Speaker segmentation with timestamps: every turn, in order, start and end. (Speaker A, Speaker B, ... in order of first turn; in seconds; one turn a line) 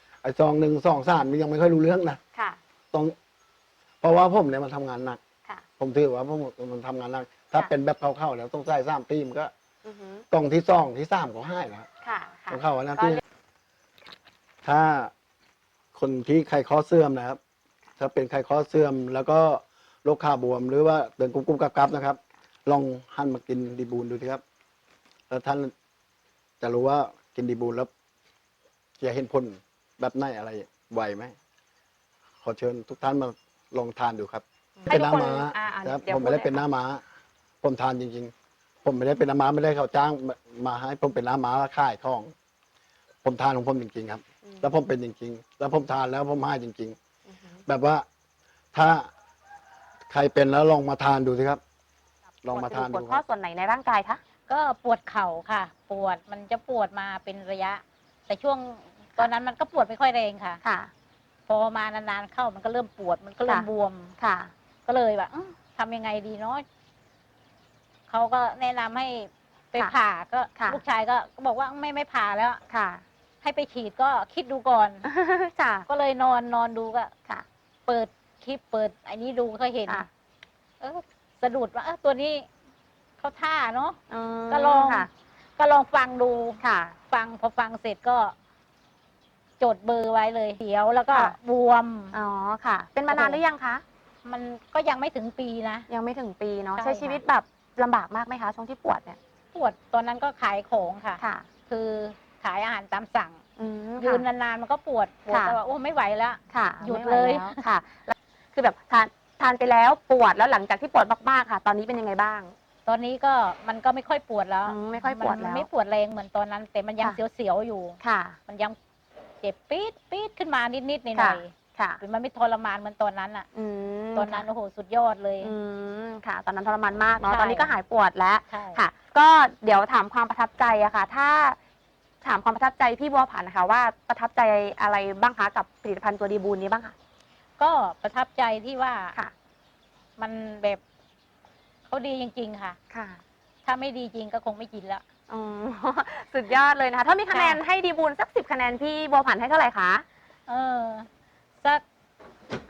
Speaker A: 0.2-2.2
Speaker B: 2.3-2.6
Speaker A: 4.0-5.2
Speaker A: 5.8-9.5
Speaker B: 9.8-10.2
Speaker A: 10.3-11.9
Speaker B: 12.0-13.2
Speaker A: 12.5-13.2
Speaker A: 14.6-15.1
Speaker A: 15.9-17.4
Speaker A: 18.0-24.4
Speaker A: 25.3-25.7
Speaker A: 26.6-27.9
Speaker A: 29.0-31.4
Speaker A: 32.4-37.0
Speaker B: 34.8-36.6
Speaker A: 37.6-38.3
Speaker A: 38.8-42.3
Speaker A: 43.2-47.0
Speaker B: 44.4-44.7
Speaker B: 47.2-47.6
Speaker A: 47.7-48.0
Speaker A: 48.7-49.1
Speaker A: 50.1-51.6
Speaker A: 52.4-53.2
Speaker B: 52.5-54.2
Speaker C: 54.5-60.6
Speaker B: 60.6-60.9
Speaker C: 61.5-64.1
Speaker B: 64.2-64.5
Speaker C: 64.9-66.6
Speaker C: 68.1-72.6
Speaker B: 70.6-70.8
Speaker B: 72.7-73.0
Speaker C: 73.4-75.0
Speaker B: 75.0-75.9
Speaker C: 75.9-77.1
Speaker C: 77.9-80.1
Speaker C: 80.8-82.5
Speaker C: 83.2-84.0
Speaker B: 84.1-85.1
Speaker C: 84.5-86.6
Speaker B: 86.6-87.0
Speaker C: 87.1-88.3
Speaker C: 89.6-92.2
Speaker B: 91.1-91.4
Speaker B: 92.1-93.8
Speaker C: 93.1-93.4
Speaker C: 94.2-95.9
Speaker B: 95.9-99.2
Speaker C: 96.8-97.2
Speaker C: 99.5-103.4
Speaker B: 101.2-101.5
Speaker B: 103.6-104.3
Speaker C: 104.0-107.6
Speaker B: 105.3-105.6
Speaker B: 106.5-112.5
Speaker C: 112.9-118.8
Speaker B: 114.6-115.7
Speaker B: 118.0-118.4
Speaker C: 119.4-123.5
Speaker B: 121.1-122.0
Speaker B: 123.5-124.5
Speaker C: 124.1-125.5
Speaker B: 125.4-131.6
Speaker C: 127.2-127.7
Speaker C: 128.5-128.8
Speaker B: 132.2-136.9
Speaker C: 137.6-139.2
Speaker C: 140.2-140.8
Speaker C: 141.9-142.8
Speaker B: 142.9-143.2
Speaker C: 143.6-145.0
Speaker B: 145.3-150.1
Speaker C: 147.3-147.6
Speaker C: 150.5-151.1